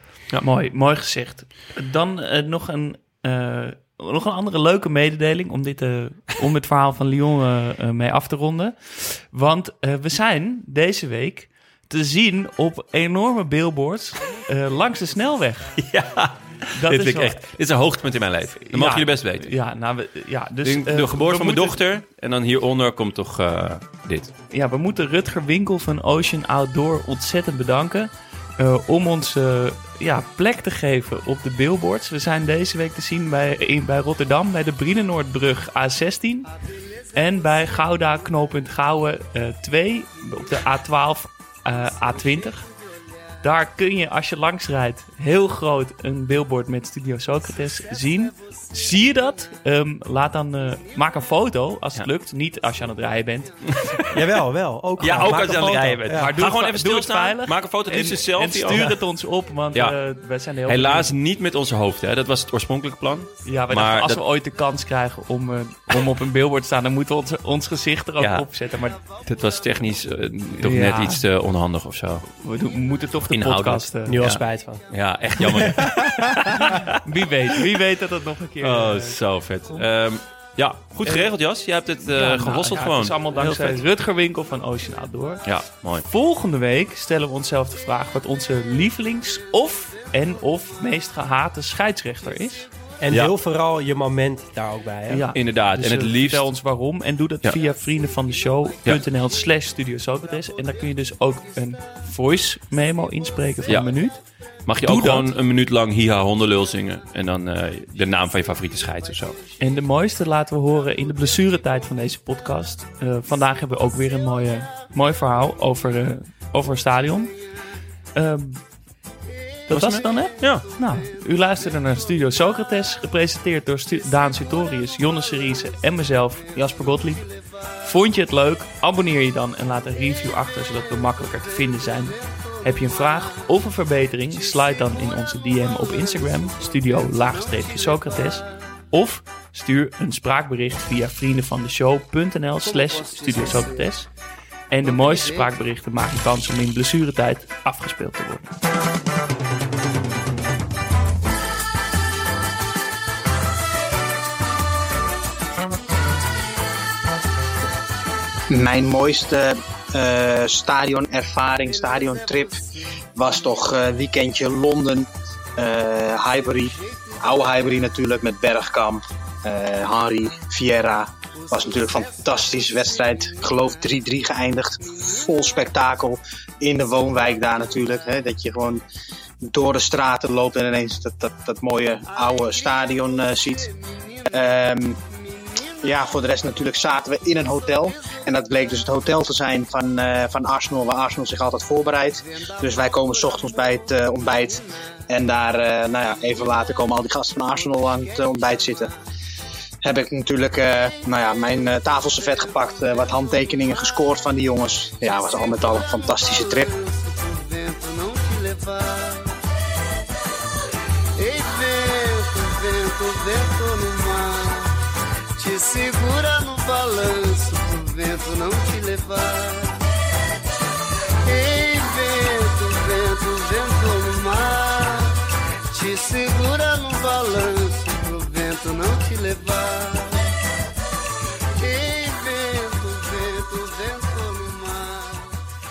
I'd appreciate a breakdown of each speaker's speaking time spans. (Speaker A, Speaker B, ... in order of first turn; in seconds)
Speaker A: 0.4-15.7, 16.7-17.6, 18.6-21.8, 24.5-36.5, 37.1-42.7, 43.4-54.1, 56.1-61.1, 63.4-69.0, 70.6-71.2, 72.3-74.2, 76.6-79.8, 81.0-81.3, 82.1-92.7, 95.1-104.2, 104.8-105.3, 109.6-117.3, 118.1-118.6, 119.7-127.3, 127.8-144.1, 144.7-148.5
Speaker B: 14.2-15.7, 36.4-38.8, 39.9-41.1, 41.6-44.1, 47.4-49.6, 50.4-51.4, 52.6-53.7, 59.5-59.7, 63.2-63.9, 64.4-64.8, 68.7-70.2, 72.7-73.0, 89.9-90.5, 92.2-92.9, 97.6-99.5, 100.0-103.7, 109.1-109.8, 110.5-112.0, 113.2-114.9, 117.0-117.8, 119.2-123.1, 123.8-128.2, 129.6-138.7, 142.6-144.1, 144.8-145.5, 161.5-164.1, 166.4-167.8, 171.3-174.0, 174.8-175.4, 182.0-186.1, 187.5-188.2, 192.1-195.3, 196.1-198.8, 202.4-203.3, 205.1-209.4, 211.2-214.7, 215.4-219.8, 221.2-225.2, 225.7-230.4, 231.6-235.4
Speaker C: 15.8-19.5, 20.6-24.3, 53.7-54.1, 55.0-58.9, 60.6-64.2, 68.2-68.5, 69.2-72.2, 73.3-76.9, 78.6-83.8, 85.4-86.0, 95.3-96.5, 104.6-109.4, 119.7-120.7
Speaker D: 54.1-56.3, 74.0-74.9, 75.4-75.7, 93.0-95.2
Speaker E: 158.5-162.5, 163.2-178.8, 179.4-183.7, 184.3-185.0, 185.8-198.9, 199.8-206.7